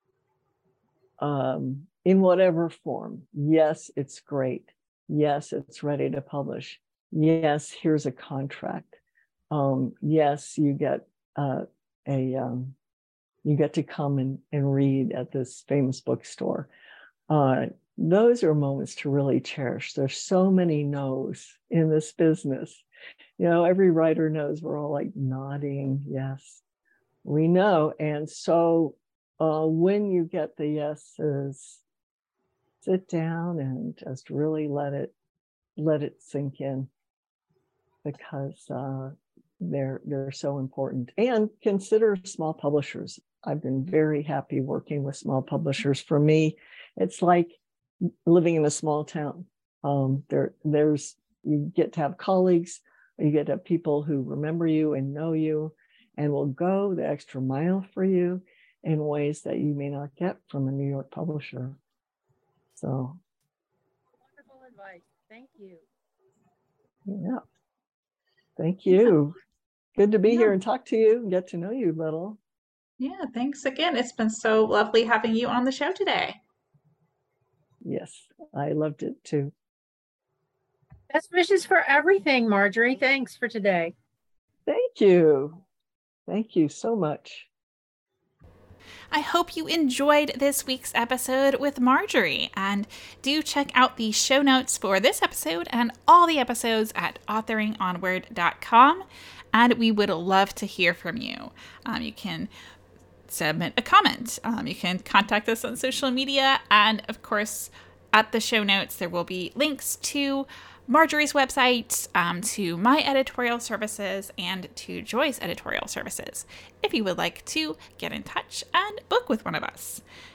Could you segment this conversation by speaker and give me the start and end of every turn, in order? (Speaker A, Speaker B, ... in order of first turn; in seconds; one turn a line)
Speaker A: 1.2-9.0
Speaker A: 9.5-12.8
Speaker A: 13.4-16.7
Speaker A: 17.3-22.8
Speaker A: 23.4-26.6
Speaker A: 27.2-31.8
Speaker A: 32.8-35.1
Speaker A: 35.8-36.9
Speaker A: 38.0-47.6
Speaker A: 48.2-61.8
Speaker A: 62.8-63.2
Speaker B: 64.3-65.8
Speaker A: 67.1-67.4
Speaker A: 68.6-69.3
Speaker A: 70.0-72.4
Speaker C: 73.0-76.4
Speaker A: 77.8-79.5
Speaker B: 81.1-83.9
Speaker A: 84.7-85.6
Speaker A: 86.3-87.5
Speaker C: 89.1-102.5
Speaker C: 103.3-120.0